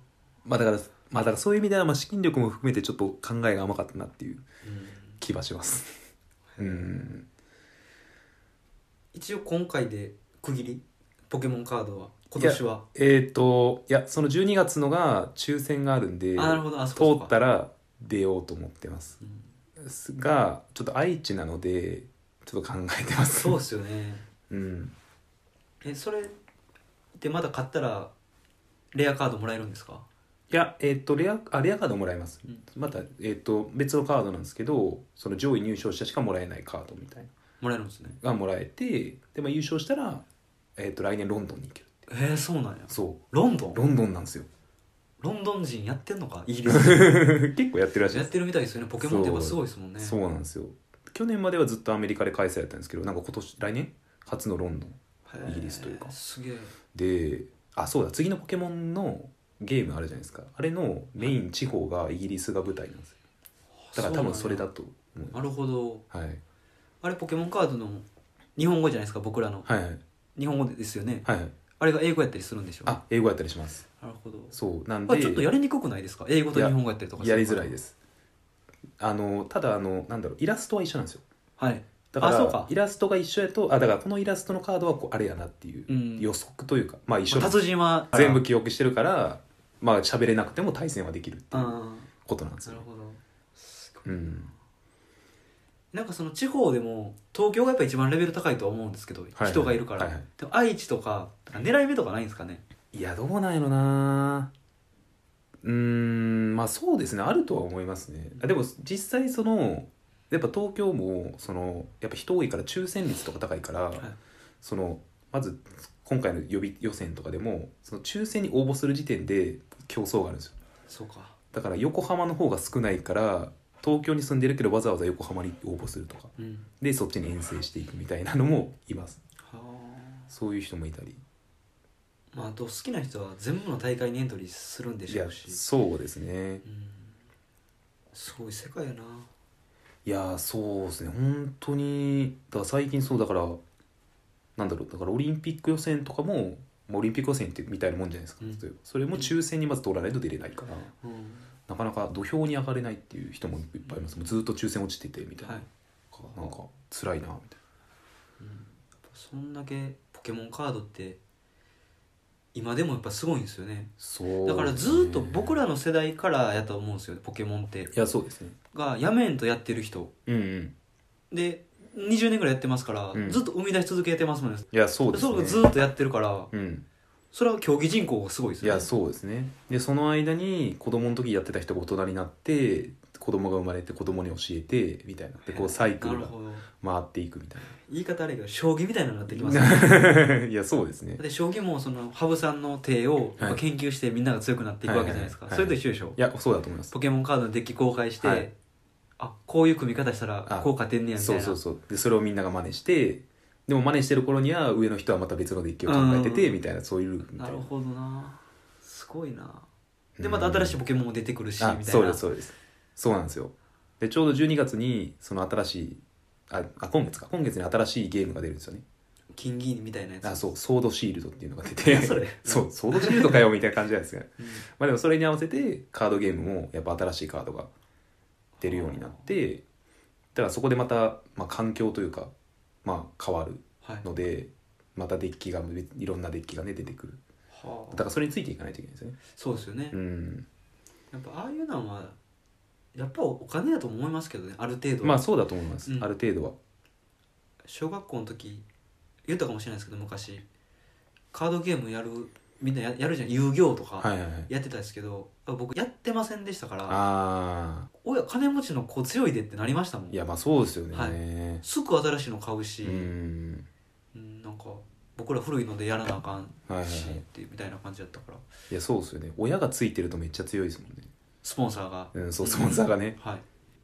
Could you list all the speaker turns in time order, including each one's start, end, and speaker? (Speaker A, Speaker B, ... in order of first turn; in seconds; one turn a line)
Speaker A: 0.4-4.4
Speaker B: 4.6-5.2
Speaker A: 5.2-6.0
Speaker B: 6.5-6.9
Speaker A: 6.6-7.2
Speaker B: 9.1-12.8
Speaker A: 12.4-19.2
Speaker B: 16.4-17.3
Speaker A: 19.8-23.6
Speaker B: 23.4-24.2
Speaker A: 24.5-24.9
Speaker B: 25.8-26.3
Speaker B: 27.2-28.1
Speaker B: 28.9-30.1
Speaker A: 30.5-37.3
Speaker B: 37.6-38.2
Speaker A: 38.2-40.2
Speaker A: 40.8-42.0
Speaker B: 42.1-43.8
Speaker A: 42.9-44.5
Speaker B: 45.2-47.3
Speaker A: 46.7-48.3
Speaker B: 48.1-50.1
Speaker A: 49.0-56.1
Speaker B: 55.3-56.7
Speaker A: 56.9-63.1
Speaker B: 63.8-64.7
Speaker A: 64.0-65.4
Speaker B: 65.3-66.0
Speaker A: 66.1-66.4
Speaker B: 67.0-68.0
Speaker B: 68.5-69.7
Speaker A: 69.7-70.0
Speaker B: 70.3-71.3
Speaker A: 71.2-71.5
Speaker B: 71.8-73.0
Speaker A: 72.8-73.8
Speaker B: 74.0-74.5
Speaker A: 74.5-75.5
Speaker B: 75.1-77.7
Speaker A: 76.5-77.9
Speaker A: 79.0-81.2
Speaker B: 81.6-82.7
Speaker A: 82.1-92.8
Speaker B: 85.9-86.3
Speaker B: 87.3-88.4
Speaker B: 91.5-92.1
Speaker B: 92.7-94.5
Speaker A: 94.0-94.5
Speaker B: 95.9-102.6
Speaker A: 99.3-100.2
Speaker A: 102.9-104.5
Speaker A: 105.6-114.1
Speaker A: 114.6-120.5
Speaker B: 120.9-121.3
Speaker A: 121.5-129.2
Speaker B: 126.4-126.7
Speaker B: 129.4-130.3
Speaker A: 130.3-131.2
Speaker B: 132.3-135.6
Speaker A: 135.1-136.6
Speaker B: 136.6-137.1
Speaker B: 138.1-139.3
Speaker A: 140.0-143.6
Speaker A: 144.6-150.9
Speaker B: 151.0-151.5
Speaker A: 151.7-157.6
Speaker B: 155.4-155.7
Speaker B: 158.4-161.2
Speaker B: 162.5-163.9
Speaker A: 164.0-165.6
Speaker B: 164.4-167.9
Speaker A: 167.9-168.6
Speaker B: 168.7-170.1
Speaker A: 170.3-170.7
Speaker B: 171.3-176.5
Speaker A: 173.1-173.4
Speaker A: 174.7-175.7
Speaker A: 176.5-176.8
Speaker B: 177.3-178.9
Speaker A: 178.6-187.8
Speaker B: 185.4-186.7
Speaker B: 187.8-190.2
Speaker A: 189.3-191.2
Speaker B: 191.2-196.2
Speaker A: 194.8-196.9
Speaker B: 196.9-198.5
Speaker A: 198.2-198.5
Speaker B: 199.2-201.6
Speaker A: 200.5-207.7
Speaker B: 205.8-206.6
Speaker B: 207.3-209.7
Speaker A: 210.2-210.8
Speaker B: 210.2-212.2
Speaker A: 211.6-218.8
Speaker B: 219.3-220.4
Speaker A: 220.2-227.7
Speaker B: 221.8-223.5
Speaker B: 224.4-224.6
Speaker B: 228.6-229.3
Speaker A: 228.6-229.6
Speaker A: 230.3-232.3
Speaker A: 232.8-237.2
Speaker B: 237.5-238.1
Speaker A: 237.9-239.2
Speaker B: 239.3-240.0
Speaker A: 239.9-240.4
Speaker B: 241.1-242.2
Speaker B: 242.9-245.2
Speaker A: 245.0-246.6
Speaker B: 247.6-248.6
Speaker B: 249.2-250.4
Speaker B: 251.3-257.0
Speaker A: 254.0-254.5
Speaker A: 256.9-257.9
Speaker B: 258.0-260.2
Speaker A: 260.1-261.6
Speaker B: 260.9-263.1
Speaker A: 262.8-263.7
Speaker B: 264.1-268.4
Speaker A: 266.7-267.2
Speaker A: 268.7-271.1
Speaker B: 271.4-273.4
Speaker A: 272.1-273.2